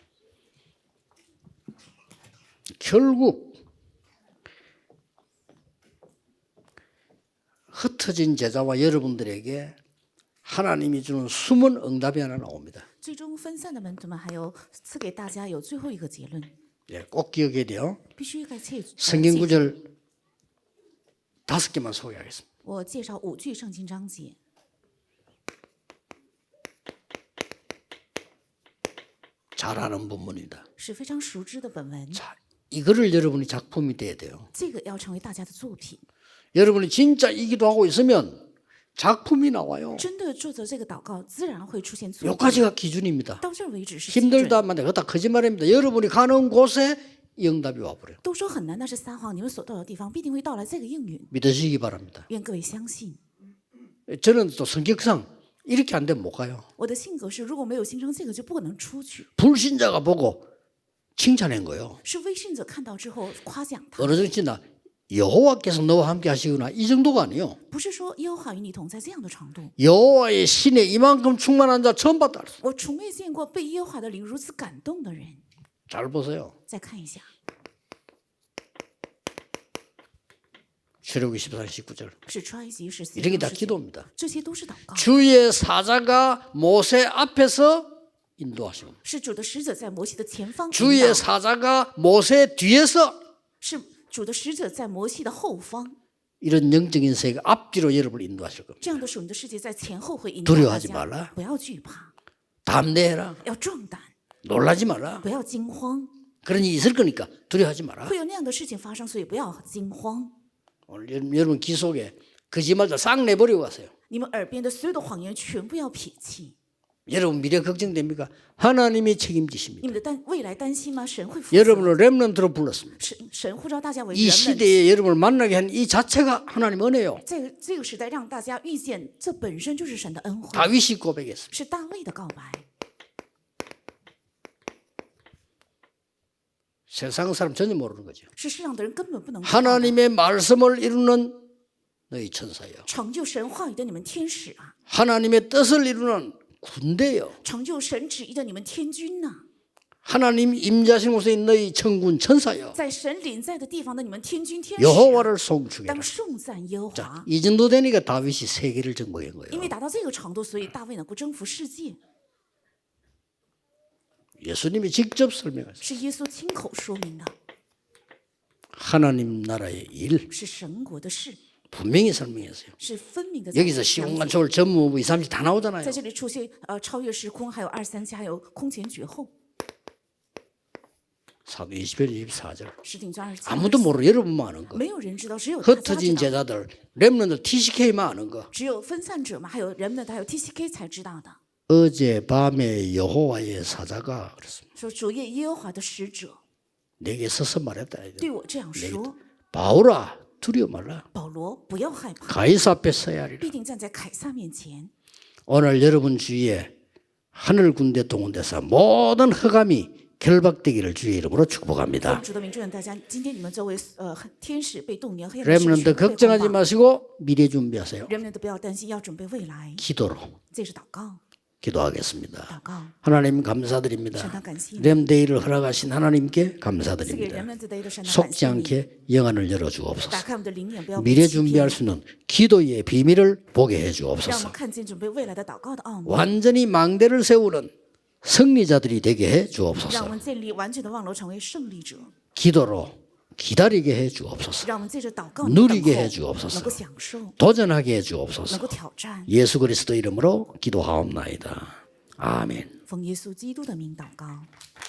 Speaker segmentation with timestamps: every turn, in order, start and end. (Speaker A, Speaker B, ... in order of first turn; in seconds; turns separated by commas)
Speaker A: 2.8-3.6, Speaker A: 7.7-9.8, Speaker A: 10.4-12.9, Speaker B: 13.0-16.5, Speaker A: 16.9-18.0, Speaker B: 18.2-19.7, Speaker A: 19.0-19.9, Speaker A: 21.5-22.4, Speaker B: 22.6-24.4, Speaker A: 29.6-30.6, Speaker B: 30.8-32.2, Speaker A: 32.1-34.5, Speaker B: 34.5-36.0, Speaker A: 36.5-38.4, Speaker A: 39.0-40.1, Speaker B: 40.0-42.7, Speaker A: 42.2-43.4, Speaker B: 43.4-44.6, Speaker A: 44.1-48.2, Speaker B: 48.2-51.3, Speaker A: 51.3-52.3, Speaker B: 52.3-53.2, Speaker A: 54.1-56.6, Speaker B: 56.8-59.3, Speaker A: 59.4-60.4, Speaker A: 61.2-62.0, Speaker B: 62.0-64.3, Speaker A: 64.0-67.6, Speaker B: 67.7-69.8, Speaker A: 69.8-72.6, Speaker B: 72.6-75.4, Speaker A: 75.9-76.5, Speaker B: 76.7-77.3, Speaker A: 81.0-82.1, Speaker B: 82.3-85.1, Speaker A: 83.2-84.1, Speaker A: 84.9-89.0, Speaker B: 89.0-91.3, Speaker A: 90.7-93.2, Speaker B: 93.6-96.0, Speaker A: 96.4-98.9, Speaker B: 98.8-102.1, Speaker A: 100.5-101.3, Speaker A: 102.7-103.4, Speaker B: 103.4-104.1, Speaker A: 104.4-105.2, Speaker B: 105.2-106.1, Speaker A: 106.4-108.2, Speaker B: 108.0-110.3, Speaker A: 110.9-113.9, Speaker B: 114.1-116.5, Speaker A: 117.1-120.0, Speaker B: 119.8-122.0, Speaker A: 121.5-123.0, Speaker B: 123.0-124.8, Speaker A: 124.1-127.2, Speaker B: 127.2-130.8, Speaker A: 130.5-131.5, Speaker B: 131.5-132.7, Speaker A: 136.9-138.2, Speaker B: 138.4-140.0, Speaker A: 139.4-141.4, Speaker A: 142.1-142.9, Speaker B: 142.9-144.8, Speaker A: 144.9-147.4, Speaker B: 147.4-149.4, Speaker A: 150.0-152.8, Speaker B: 152.8-155.3, Speaker A: 154.8-156.1, Speaker B: 155.9-157.3, Speaker A: 156.9-159.7, Speaker B: 159.5-162.0, Speaker A: 164.4-165.9, Speaker B: 165.8-167.3, Speaker A: 168.7-170.3, Speaker B: 170.3-171.4, Speaker A: 171.7-172.7, Speaker B: 172.8-174.3, Speaker A: 173.5-176.0, Speaker B: 175.8-179.3, Speaker A: 181.5-182.8, Speaker B: 182.8-184.0, Speaker A: 183.5-184.8, Speaker B: 184.7-186.4, Speaker A: 185.6-188.5, Speaker B: 188.5-191.4, Speaker A: 191.7-194.6, Speaker B: 194.8-196.4, Speaker A: 197.0-201.1, Speaker B: 198.2-199.2, Speaker B: 201.1-202.5, Speaker A: 202.3-203.5, Speaker B: 203.4-204.9, Speaker A: 205.5-206.7, Speaker A: 207.3-212.2, Speaker B: 212.0-216.6, Speaker A: 215.4-218.1, Speaker B: 218.1-219.8, Speaker A: 219.8-220.4, Speaker B: 220.5-221.2, Speaker A: 221.6-227.5, Speaker B: 222.5-222.9, Speaker B: 224.1-225.1, Speaker B: 227.0-228.8, Speaker A: 228.0-230.2, Speaker B: 230.1-231.8, Speaker A: 231.0-234.6, Speaker B: 234.2-236.4, Speaker A: 236.1-237.7, Speaker A: 238.2-240.2, Speaker B: 239.9-242.1, Speaker A: 242.3-244.7, Speaker B: 244.6-247.4, Speaker A: 245.4-246.8, Speaker A: 247.4-248.8, Speaker B: 248.5-249.3, Speaker A: 249.3-252.7, Speaker B: 252.9-254.5